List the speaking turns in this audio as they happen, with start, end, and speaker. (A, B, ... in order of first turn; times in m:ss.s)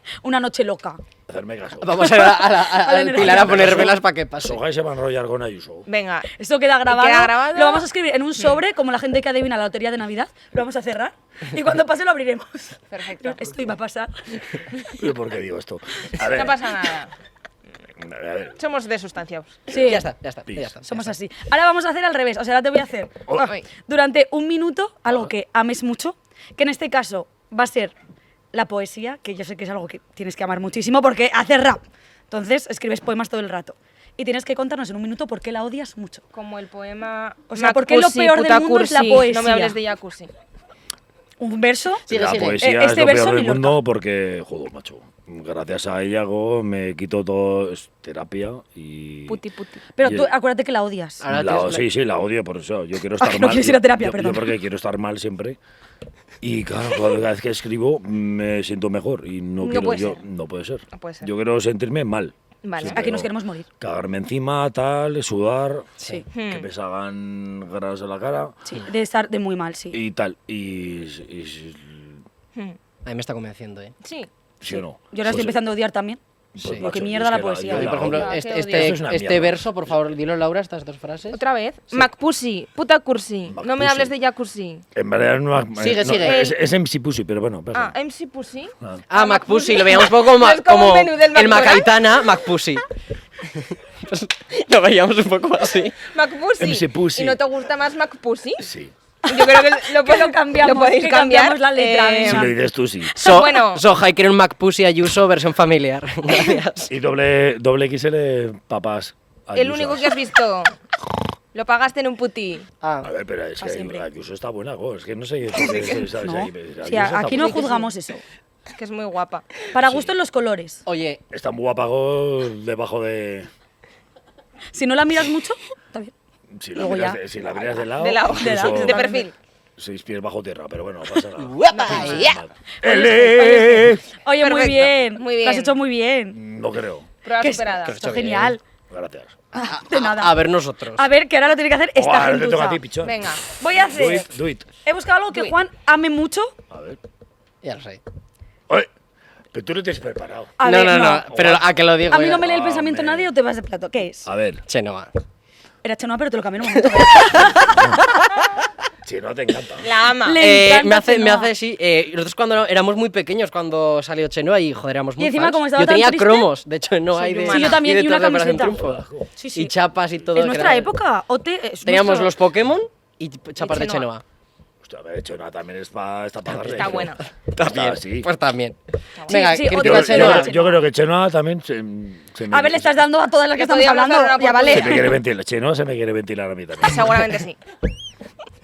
0:00.2-0:01.0 A
0:01.3-0:02.2 B
0:01.8-0:04.6 C
0:02.0-0:04.0 A
0:03.1-0:05.9 B
0:05.9-0:06.3 D
0:06.4-0:14.6 A
0:06.9-0:07.9 D
0:12.9-0:13.5 D
0:15.0-0:16.6 B
0:16.2-0:17.1 D
0:18.0-0:18.6 B
0:18.6-0:19.6 D
0:19.7-0:20.0 A
0:19.8-0:21.1 C
0:20.5-0:20.8 B
0:20.8-0:27.9 A
0:28.5-0:36.2 A
0:36.3-0:40.3 D
0:37.5-0:39.8 A
0:41.4-0:42.0 A
0:42.1-0:42.6 C
0:42.1-0:49.4 B
0:42.6-0:43.8 A
0:49.3-0:49.8 D
0:50.0-0:51.2 A
0:50.0-0:50.3 B
0:51.2-0:51.8 C
0:51.3-0:55.6 B
0:53.2-0:54.4 A
0:56.4-1:08.6 B
0:59.6-1:00.2 D
1:00.9-1:01.3 D
1:02.6-1:03.0 D
1:02.9-1:03.7 A
1:06.0-1:06.2 C
1:06.3-1:06.7 D
1:08.7-1:10.0 A
1:09.9-1:12.2 B
1:13.0-1:13.9 C
1:14.0-1:14.3 D
1:14.6-1:15.6 B
1:14.7-1:16.2 A
1:16.5-1:19.9 B
1:16.6-1:16.8 C
1:16.8-1:17.9 A
1:17.7-1:21.4 C
1:17.8-1:19.0 D
1:21.3-1:24.8 D
1:23.5-1:24.1 B
1:24.9-1:27.9 B
1:25.8-1:26.4 C
1:26.2-1:26.6 D
1:27.7-1:32.0 D
1:29.1-1:32.8 C
1:33.5-1:36.0 C
1:36.1-1:38.7 D
1:36.6-1:37.4 B
1:38.6-1:38.9 B
1:39.2-1:42.6 A
1:39.3-1:42.5 D
1:42.2-1:43.1 B
1:43.2-1:43.8 D
1:43.2-1:46.9 C
1:46.9-1:50.1 B
1:49.5-1:50.7 D
1:51.5-1:52.7 D
1:52.8-1:53.1 C
1:53.0-1:57.7 B
1:53.6-1:54.0 A
1:55.6-1:56.0 D
1:56.1-1:58.2 A
1:57.2-1:57.9 D
1:58.7-1:59.6 D
1:59.7-2:00.8 A
1:59.8-2:00.1 B
2:00.8-2:01.2 C
2:01.3-2:03.5 B
2:04.7-2:06.1 A
2:06.6-2:09.2 B
2:06.8-2:07.2 A
2:08.0-2:09.3 D
2:08.3-2:09.2 A
2:09.8-2:14.0 B
2:11.4-2:12.4 C
2:11.7-2:12.4 D
2:12.8-2:16.4 A
2:14.4-2:15.8 D
2:16.3-2:17.1 B
2:17.2-2:18.0 D
2:17.4-2:18.6 A
2:17.8-2:18.6 C
2:18.9-2:19.4 B
2:19.5-2:20.4 A
2:19.8-2:21.0 C
2:21.0-2:22.8 A
2:22.0-2:24.7 B
2:23.0-2:23.4 D
2:23.6-2:24.3 A
2:24.8-2:26.5 A
2:26.7-2:27.0 B
2:27.6-2:28.0 C
2:29.5-2:30.6 B
2:30.6-2:31.3 A
2:30.6-2:32.4 C
2:31.3-2:31.6 B
2:32.1-2:34.3 A
2:32.3-2:33.3 B
2:34.2-2:34.6 B
2:34.7-2:35.1 C
2:35.8-2:37.9 A
2:36.8-2:38.5 C
2:37.3-2:38.0 B
2:39.0-2:39.9 B
2:39.8-2:40.4 D
2:40.2-2:41.5 A
2:40.4-2:50.9 C
2:45.2-2:46.5 A
2:47.2-2:47.9 D
2:47.4-2:48.8 A
2:48.5-2:49.3 B
2:49.4-2:49.7 A
2:50.3-2:52.3 A
2:51.8-2:54.2 C
2:53.6-2:54.1 D
2:54.8-2:58.3 B
2:56.5-2:58.8 C
2:56.7-2:57.2 D
2:59.2-2:59.6 D
2:59.3-3:00.5 C
2:59.3-3:00.8 A
2:59.7-3:03.0 B
3:02.5-3:05.2 A
3:03.5-3:05.1 D
3:04.7-3:07.4 B
3:06.8-3:07.6 D